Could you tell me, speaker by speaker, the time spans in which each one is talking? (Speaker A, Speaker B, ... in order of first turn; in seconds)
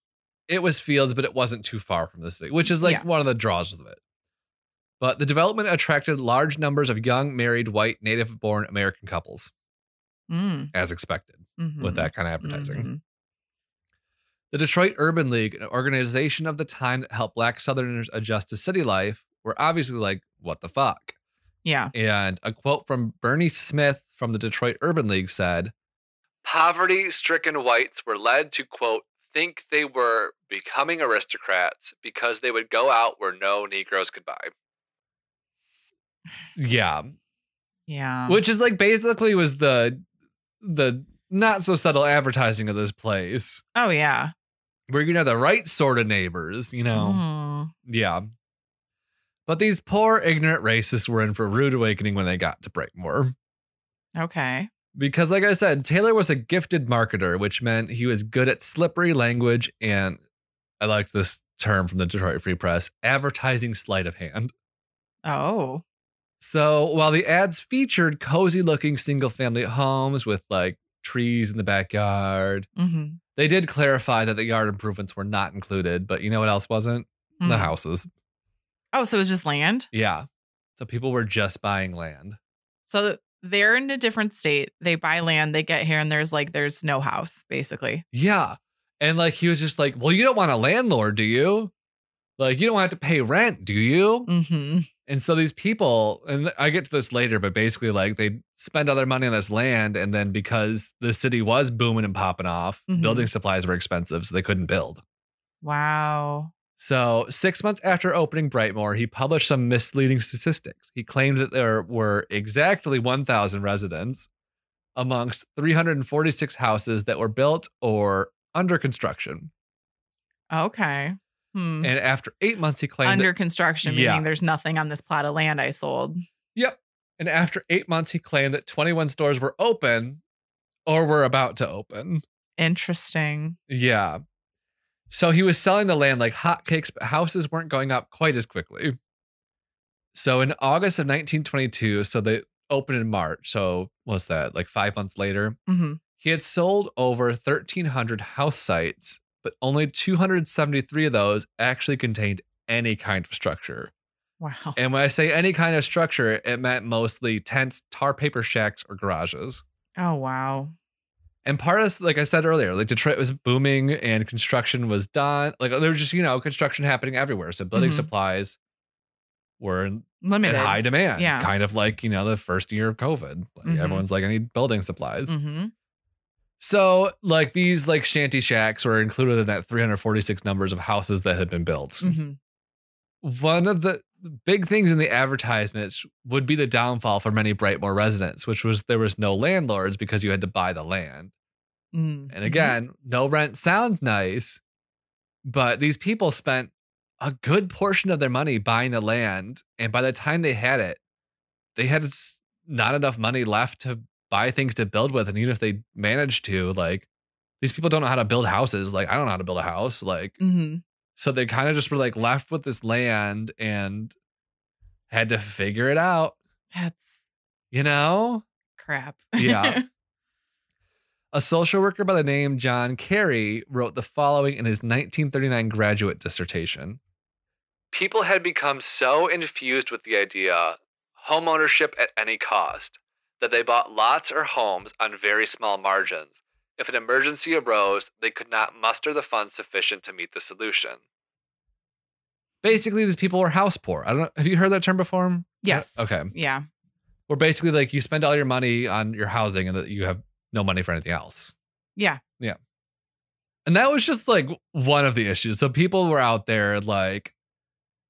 Speaker A: 0.5-4.0, 5.0-9.5, 10.7-12.9, 14.5-21.2, 21.9-25.7, 26.4-34.5, 36.6-37.1, 38.3-40.0, 40.6-43.6, 44.9-47.2, 47.9-48.3, 49.5-53.3, 55.0-60.2, 60.8-64.5, 66.4-72.7, 73.4-78.1, 79.9-82.4, 88.1-91.7, 92.4-94.3, 95.1-105.0, 106.8-114.3, 115.0-119.5, 121.8-123.3, 123.8-124.2, 126.5-130.2, 130.9-132.2, 133.7-134.2, 135.1-139.0, 140.1-145.6, 146.2-153.9, 154.8-159.6, 161.4-168.6, 169.6-175.3, 176.6-182.2, 183.2-191.3, 192.3-194.6, 195.4-201.0, 201.8-207.1, 207.6-210.4, 211.2-214.1, 215.1-216.4, 217.7-218.4, 219.4-219.8, 221.3-227.0, 227.9-241.0, 242.6-246.3, 247.3-251.6, 253.7-257.3
Speaker B: 2.8-3.0, 10.3-10.7, 11.6-13.0, 21.6-21.9, 37.9-38.4, 43.8-44.3, 46.9-47.7, 54.2-54.7, 65.2-65.8, 72.8-73.2, 77.4-77.7, 78.9-79.9, 82.9-88.0, 94.3-94.9, 102.9-103.3, 105.6-106.5, 120.5-121.9, 123.0-126.2, 132.6-133.6, 145.7-146.0, 154.4-154.8, 160.0-160.7, 167.7-168.1, 170.2-171.5, 173.7-174.1, 175.3-175.7, 182.0-182.4, 191.9-192.8, 210.4-210.8, 216.7-217.1, 218.8-219.8, 245.6-246.7